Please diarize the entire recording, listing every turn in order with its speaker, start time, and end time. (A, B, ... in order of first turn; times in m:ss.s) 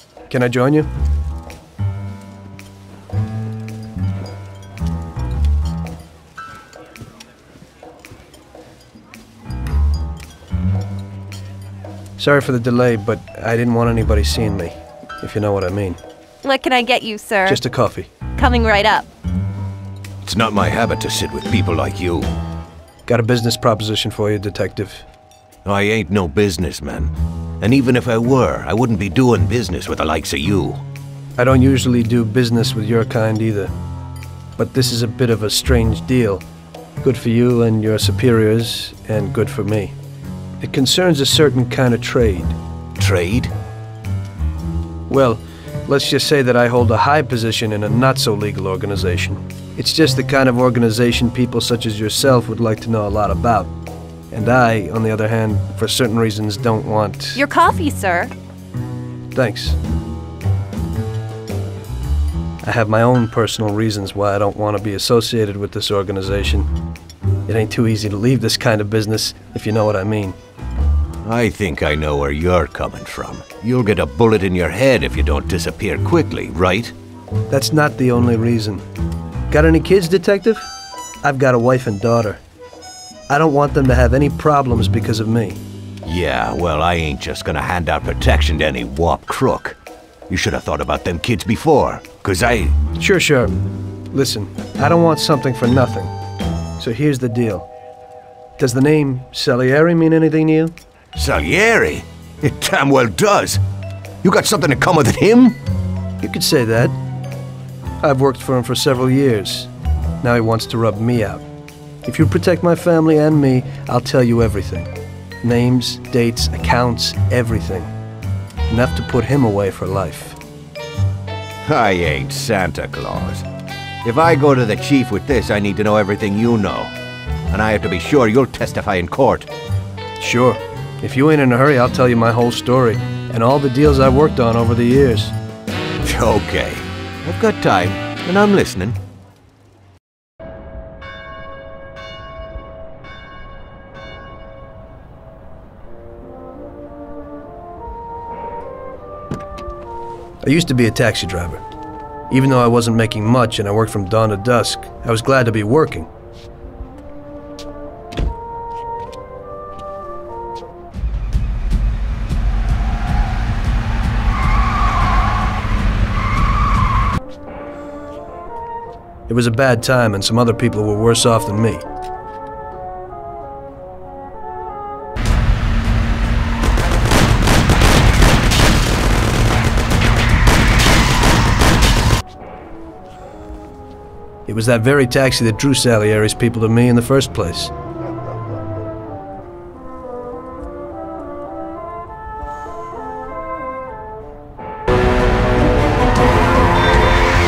0:00.3-0:00.9 A
0:12.2-0:16.0 A
0:16.4-0:17.6 B
0:17.5-0:18.1 A
0:18.4-0:19.1 B
0:20.2-0:22.3 C
0:23.1-0:25.0 A
0:25.6-0:30.8 C
0:31.4-0:33.7 A
0:34.6-0:36.4 A
0:37.0-0:39.9 A
0:40.6-0:42.6 A
0:43.0-0:43.5 C
0:45.1-0:53.7 A
0:54.3-0:57.4 A
0:57.4-0:58.3 B
0:59.3-0:59.8 A
1:02.6-1:06.7 A
1:07.5-1:10.4 A
1:11.2-1:16.9 C
1:17.5-1:18.8 A
1:19.5-1:20.7 A
1:21.2-1:22.4 A
1:23.3-1:25.6 A
1:26.0-1:29.8 C
1:30.3-1:32.8 C
1:33.0-1:33.5 A
1:34.1-1:36.1 A
1:36.8-1:37.7 A
1:38.6-1:40.7 A
1:41.2-1:43.6 C
1:44.2-1:45.6 C
1:46.2-1:47.0 A
1:48.0-1:51.4 A
1:52.0-1:54.9 A
1:55.4-1:57.9 A
1:58.7-2:00.4 A
2:01.7-2:03.4 C
2:04.0-2:06.9 C
2:07.5-2:09.5 C
2:10.2-2:15.4 A
2:16.0-2:19.0 C
2:30.4-2:31.6 A
2:32.3-2:36.1 A
2:49.3-2:51.8 A
3:04.5-3:07.7 A